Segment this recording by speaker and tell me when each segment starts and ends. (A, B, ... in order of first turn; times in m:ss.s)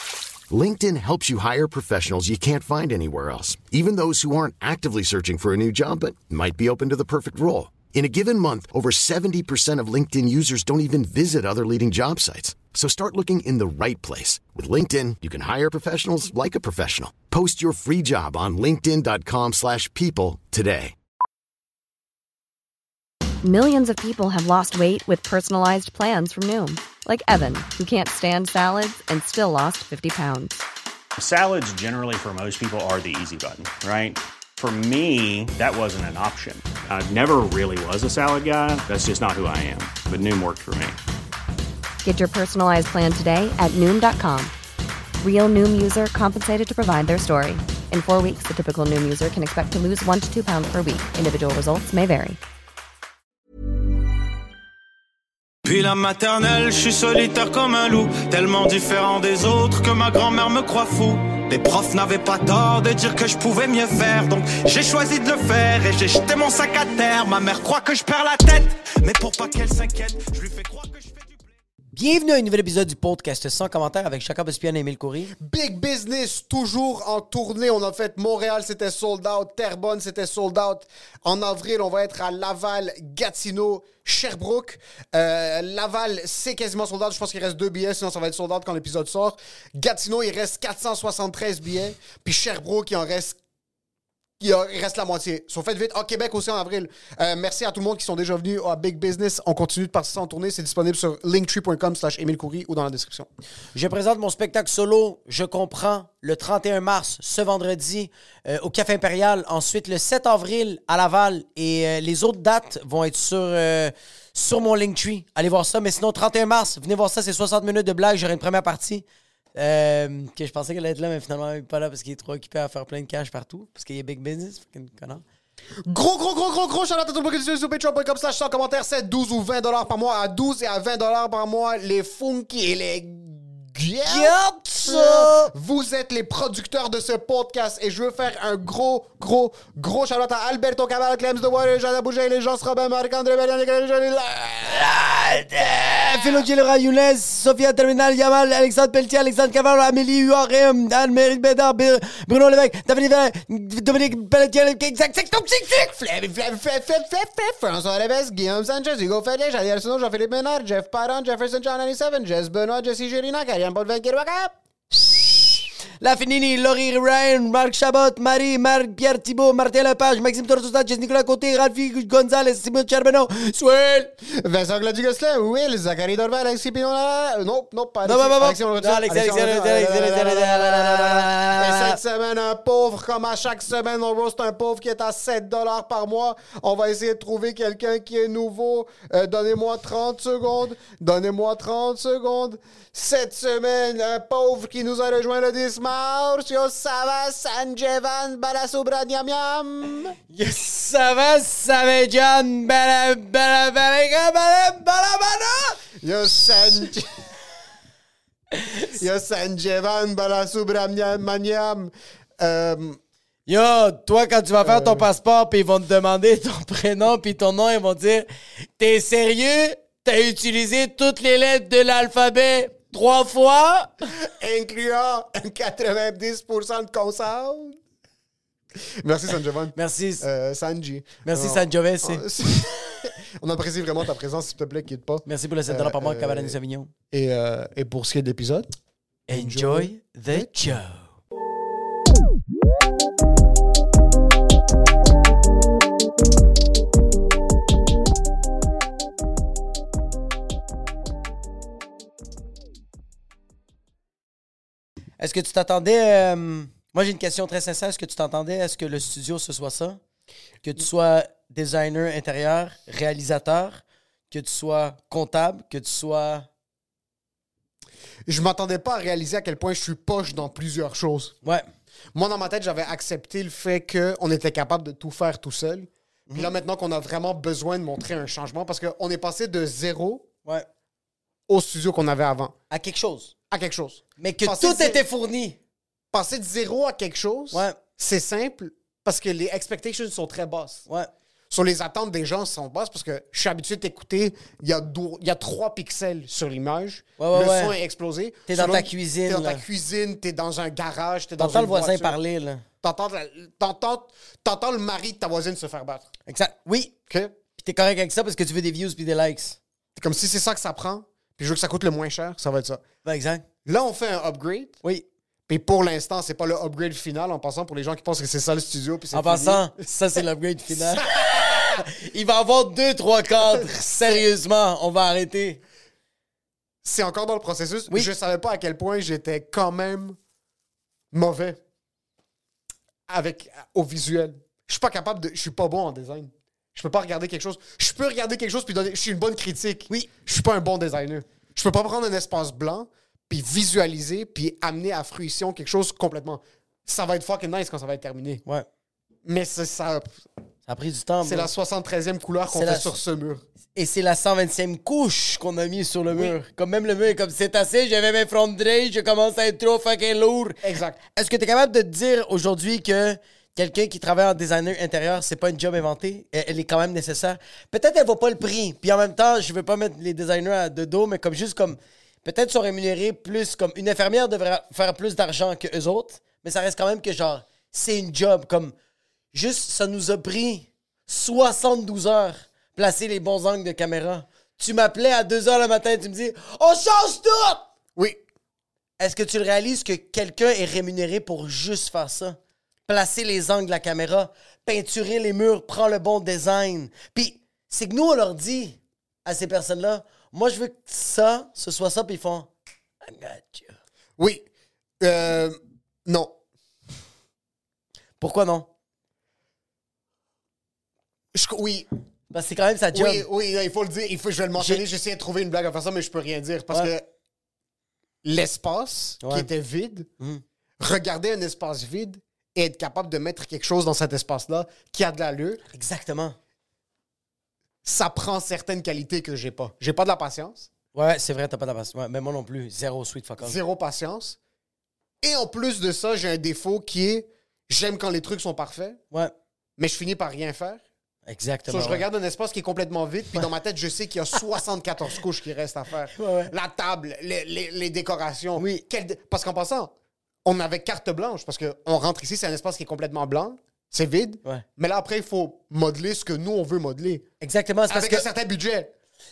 0:00.5-0:20.9 A
0:23.4-0:30.6 B
0:31.2-0:41.0 C
0:42.0-0:44.5 B
0:45.2-0:52.4 B
0:55.6-1:11.3 D
1:11.9-1:15.3 E
1:15.4-1:33.4 F
1:34.4-1:43.3 F
1:43.7-2:05.2 E
2:05.8-2:24.9 F
2:14.0-2:15.5 E
2:24.6-2:36.1 E
2:26.0-2:26.4 F
2:36.0-2:44.6 F
2:44.9-2:54.1 E
2:54.2-3:20.2 F
2:58.0-3:02.0 E
3:20.3-3:26.8 E
3:26.0-3:27.1 F
3:28.5-3:28.9 E
3:28.9-3:33.0 F
3:33.5-3:43.9 E
3:34.6-3:35.0 F
3:44.2-3:47.8 F
3:48.8-3:56.6 F
3:49.7-3:50.2 E
3:51.2-3:53.0 E
3:55.2-3:56.9 E
3:57.1-3:58.7 F
3:59.3-4:01.1 E
3:59.3-4:00.5 F
4:15.2-4:20.0 E
4:20.6-4:26.5 E
4:28.2-4:31.4 F
4:32.1-4:40.2 F
4:41.5-4:42.6 F
4:42.7-4:43.3 E
4:43.5-4:45.0 F
4:44.2-4:45.6 E
4:46.1-4:50.8 F
4:47.5-4:47.8 E
4:51.5-5:02.2 F
4:57.2-4:57.7 E
4:58.5-4:59.6 E
5:01.4-5:02.6 E
5:02.8-5:06.1 F
5:06.3-5:06.9 E
5:07.1-5:07.3 F
5:07.6-5:09.6 E
5:10.0-5:12.8 F
5:13.0-5:13.4 E
5:13.6-5:14.8 F
5:15.5-5:19.7 F
5:19.1-5:25.6 E
5:20.7-5:21.8 F
5:26.8-5:30.2 F
5:31.1-5:31.6 F
5:33.1-5:48.4 F
5:49.2-5:50.2 F
5:50.7-5:51.5 E
5:51.2-5:53.4 F
5:52.5-5:52.9 E
5:53.7-6:18.7 E
5:56.1-5:56.4 F
6:00.6-6:01.0 F
6:19.3-6:27.6 E
6:28.0-6:28.2 F
6:29.0-6:42.5 E
6:43.0-6:43.8 E
6:44.2-6:44.4 F
6:45.0-6:46.3 F
6:48.2-6:48.7 E
6:51.3-6:51.9 F
6:52.3-6:53.2 E
6:52.9-6:57.1 F
6:54.6-6:54.8 E
6:58.2-7:00.1 F
6:59.2-6:59.5 E
7:00.8-7:05.6 F
7:05.7-7:06.4 E
7:07.8-7:10.7 F
7:10.9-7:13.6 E
7:13.4-7:14.4 F
7:15.2-7:19.0 F
7:19.8-7:20.8 F
7:21.3-7:22.0 E
7:21.7-7:29.9 F
7:26.1-7:26.5 E
7:28.6-7:28.8 E
7:30.4-7:37.2 F
7:37.4-7:38.2 E
7:37.9-7:38.9 F